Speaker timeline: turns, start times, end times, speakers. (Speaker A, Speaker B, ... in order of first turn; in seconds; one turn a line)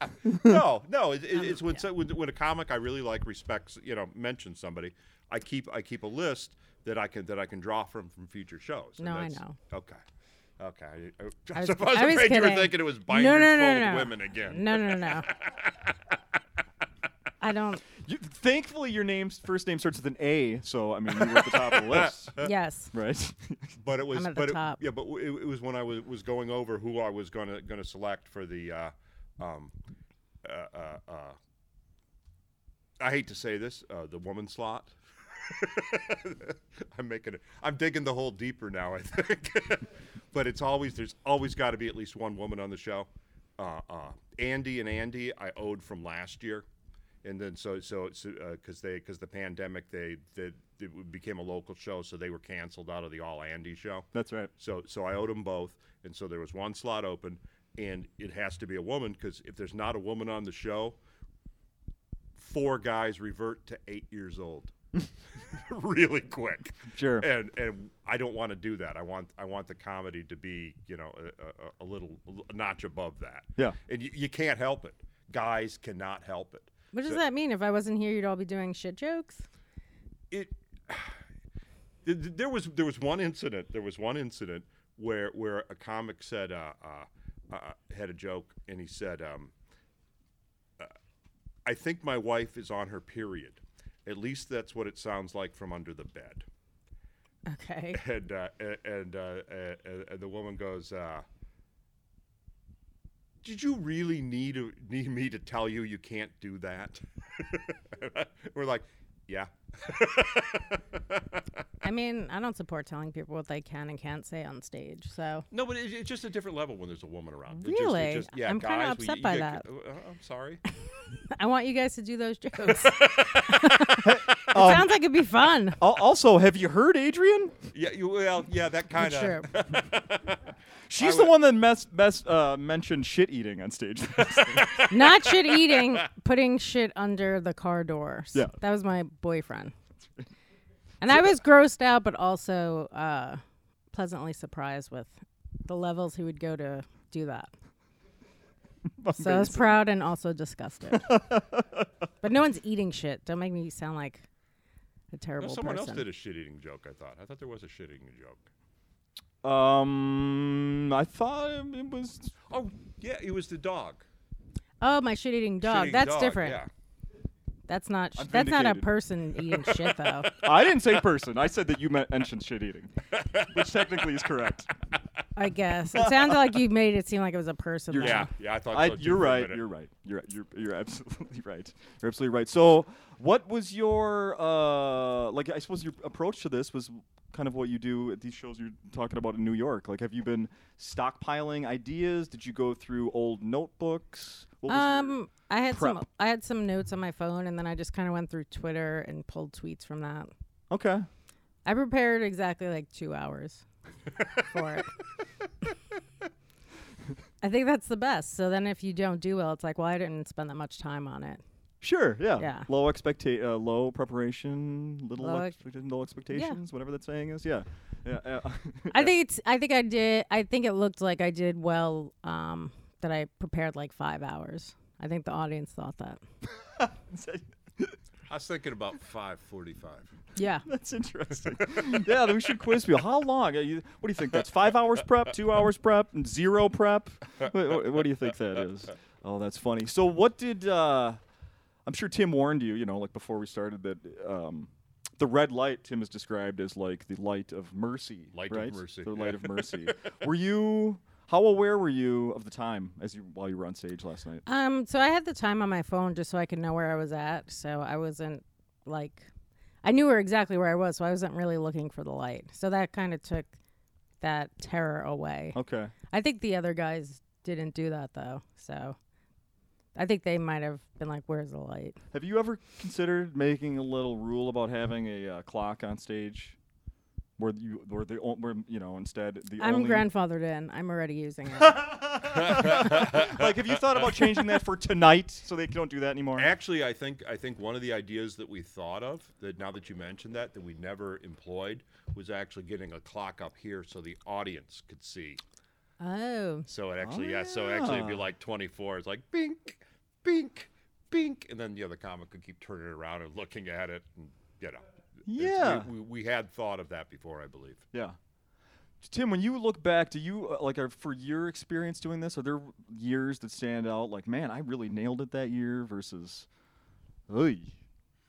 Speaker A: 0.1-10.0
Speaker B: 0.2-0.6
Speaker C: 9.0-9.6
Speaker A: 10.6-16.2
Speaker C: 11.5-15.3
Speaker C: 17.4-17.8
Speaker B: 18.0-22.4
Speaker A: 21.2-22.5
Speaker C: 22.4-22.9
Speaker B: 22.9-23.7
Speaker A: 23.8-29.7
Speaker C: 24.1-24.8
Speaker A: 30.4-31.4
Speaker A: 33.0-46.6
Speaker A: 47.2-61.0
Speaker B: 54.1-54.5
Speaker A: 62.4-64.7
Speaker A: 65.3-77.2
Speaker B: 66.9-67.3
Speaker C: 76.9-79.5
Speaker A: 80.3-81.2
Speaker A: 82.0-89.5
Speaker A: 91.7-96.4
Speaker C: 97.5-98.0
Speaker A: 97.9-101.2
Speaker A: 103.4-111.4
Speaker C: 111.8-115.5
Speaker A: 115.5-120.6
Speaker C: 117.6-119.6
Speaker C: 121.3-125.8
Speaker A: 122.7-124.1
Speaker B: 124.0-124.9
Speaker B: 125.8-127.6
Speaker A: 127.7-130.4
Speaker C: 128.9-129.5
Speaker B: 130.9-134.8
Speaker A: 131.0-131.3
Speaker A: 134.4-135.1
Speaker C: 134.9-139.7
Speaker C: 141.0-143.4
Speaker C: 143.9-147.5
Speaker B: 149.0-149.8
Speaker C: 149.1-151.2
Speaker B: 150.9-151.9
Speaker C: 152.2-154.2
Speaker C: 155.1-156.0
Speaker A: 155.4-158.4
Speaker B: 159.4-162.3
Speaker A: 162.5-164.0
Speaker C: 164.8-166.6
Speaker A: 165.6-166.7
Speaker C: 167.7-170.4
Speaker B: 168.2-168.9
Speaker B: 170.4-172.9
Speaker A: 173.1-173.5
Speaker B: 173.5-174.7
Speaker C: 175.3-178.3
Speaker B: 175.9-176.4
Speaker B: 177.9-195.1
Speaker A: 178.0-179.6
Speaker C: 194.7-200.3
Speaker B: 195.7-196.0
Speaker B: 200.7-201.1
Speaker C: 201.6-203.6
Speaker C: 204.3-204.9
Speaker C: 207.4-211.4
Speaker B: 211.8-219.1
Speaker C: 212.4-212.7
Speaker C: 215.2-215.5
Speaker C: 216.3-216.6
Speaker C: 218.9-226.2
Speaker B: 226.5-228.0
Speaker A: 228.3-230.1
Speaker C: 230.3-230.7
Speaker B: 230.7-241.2
Speaker A: 231.6-232.0
Speaker B: 241.8-254.4
Speaker A: 248.3-249.9
Speaker C: 254.4-259.3
Speaker C: 259.8-263.6
Speaker C: 264.2-265.6
Speaker B: 265.5-265.9
Speaker C: 266.1-269.0
Speaker C: 269.9-272.0
Speaker B: 272.1-276.6
Speaker B: 277.4-280.1
Speaker C: 279.6-281.9
Speaker B: 281.6-286.5
Speaker A: 282.3-284.4
Speaker A: 286.4-295.4
Speaker C: 296.0-296.7
Speaker A: 296.7-307.8
Speaker B: 297.0-298.2
Speaker B: 305.3-305.9
Speaker B: 309.0-316.5
Speaker B: 317.3-317.8